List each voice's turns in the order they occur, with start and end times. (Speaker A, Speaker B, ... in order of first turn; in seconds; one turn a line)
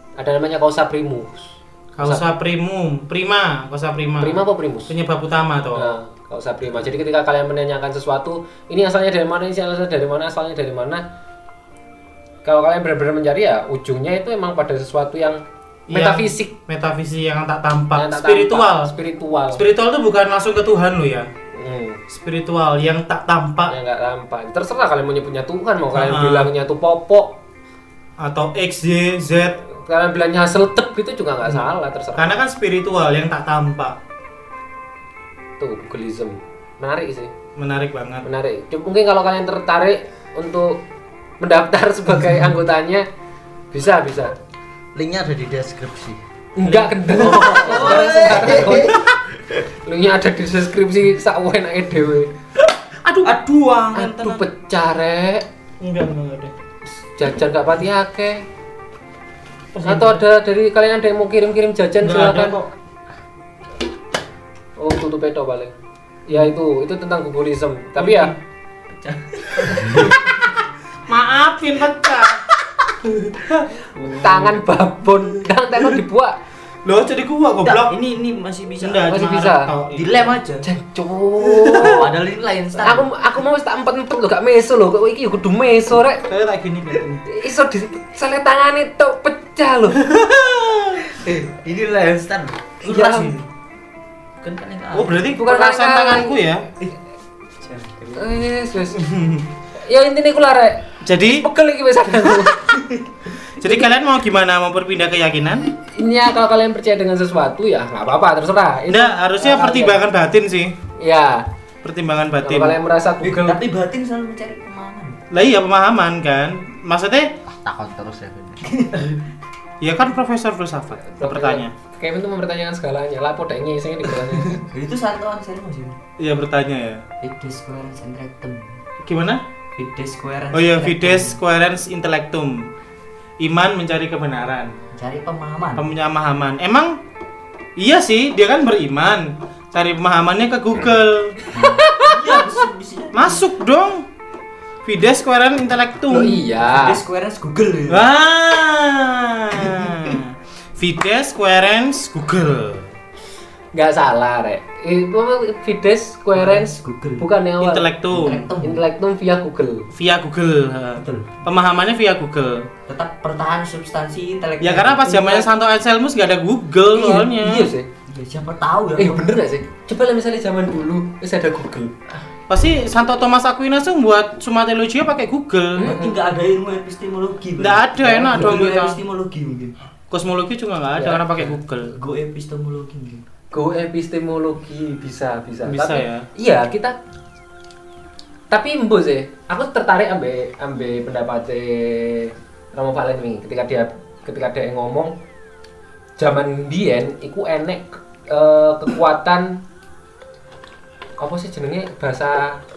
Speaker A: 0.2-2.2
Speaker B: 2.0-6.0
Speaker A: 4.2-4.9
Speaker A: 5.8-11.0
Speaker A: 12.4-16.5
Speaker B: 15.9-18.9
Speaker A: 17.9-19.6
Speaker B: 19.5-21.3
Speaker A: 21.5-22.0
Speaker B: 22.1-23.7
Speaker A: 23.7-27.4
Speaker B: 25.9-26.5
Speaker B: 28.2-29.6
Speaker A: 29.7-32.4
Speaker B: 32.2-34.0
Speaker A: 35.6-37.3
Speaker B: 37.6-38.3
Speaker A: 38.2-40.8
Speaker A: 41.4-43.1
Speaker A: 43.7-44.3
Speaker C: 45.0-46.2
Speaker A: 46.6-49.0
Speaker B: 46.7-47.0
Speaker C: 47.2-49.1
Speaker D: 47.2-48.9
Speaker A: 49.9-52.3
Speaker B: 53.0-53.3
Speaker D: 53.2-54.4
Speaker A: 53.9-55.5
Speaker B: 55.8-56.5
Speaker A: 57.0-58.5
Speaker B: 59.7-60.2
Speaker A: 59.8-62.6
Speaker B: 62.0-62.7
Speaker A: 64.8-65.7
Speaker A: 66.3-68.3
Speaker B: 68.0-68.3
Speaker D: 69.0-70.3
Speaker B: 69.7-70.5
Speaker B: 71.1-72.5
Speaker B: 73.0-74.6
Speaker D: 74.0-74.2
Speaker A: 74.2-76.4
Speaker B: 76.8-78.0
Speaker D: 77.6-79.1
Speaker B: 78.8-80.4
Speaker A: 79.1-79.7
Speaker D: 79.9-80.7
Speaker A: 80.6-82.1
Speaker B: 81.5-82.0
Speaker D: 81.8-83.1
Speaker A: 82.8-86.3
Speaker B: 86.3-87.2
Speaker A: 87.3-90.0
Speaker B: 90.0-91.0
Speaker D: 91.1-93.5
Speaker A: 92.8-93.3
Speaker D: 94.4-95.3
Speaker B: 94.9-96.7
Speaker A: 95.3-96.4
Speaker D: 97.6-98.3
Speaker A: 98.2-99.0
Speaker B: 98.9-99.5
Speaker A: 99.8-102.7
Speaker B: 101.0-101.5
Speaker B: 103.6-105.7
Speaker A: 105.9-110.0
Speaker B: 108.9-110.8
Speaker A: 111.0-111.5
Speaker B: 111.8-112.8
Speaker A: 112.4-113.6
Speaker D: 113.2-115.2
Speaker B: 115.3-117.3
Speaker C: 117.5-118.7
Speaker D: 118.6-119.2
Speaker B: 119.8-121.7
Speaker A: 121.1-124.7
Speaker D: 124.3-126.0
Speaker B: 126.2-127.0
Speaker D: 127.2-128.8
Speaker B: 129.0-129.4
Speaker D: 129.8-131.4
Speaker B: 130.5-132.7
Speaker B: 133.4-134.8
Speaker D: 134.9-135.9
Speaker B: 135.8-137.0
Speaker B: 137.8-141.4
Speaker D: 141.5-143.4
Speaker A: 141.6-142.2
Speaker B: 143.1-144.1
Speaker B: 144.8-146.4
Speaker A: 146.1-147.0
Speaker D: 146.6-148.1
Speaker B: 147.9-152.9
Speaker D: 149.6-150.2
Speaker A: 153.7-157.9
Speaker D: 156.3-157.3
Speaker B: 157.6-158.5
Speaker D: 158.1-158.8
Speaker A: 158.6-159.9
Speaker B: 159.9-162.7
Speaker D: 161.0-161.4
Speaker D: 162.9-165.4
Speaker B: 164.6-167.7
Speaker A: 165.1-165.5
Speaker A: 166.9-167.9
Speaker D: 168.1-169.3
Speaker A: 169.0-172.1
Speaker B: 172.5-175.8
Speaker A: 175.8-176.2
Speaker D: 175.8-179.8
Speaker B: 177.6-179.0
Speaker B: 180.1-181.9
Speaker A: 181.0-181.5
Speaker D: 181.9-183.2
Speaker A: 183.5-187.0
Speaker B: 185.7-186.3
Speaker A: 188.5-195.2
Speaker A: 196.2-199.6
Speaker A: 201.2-202.6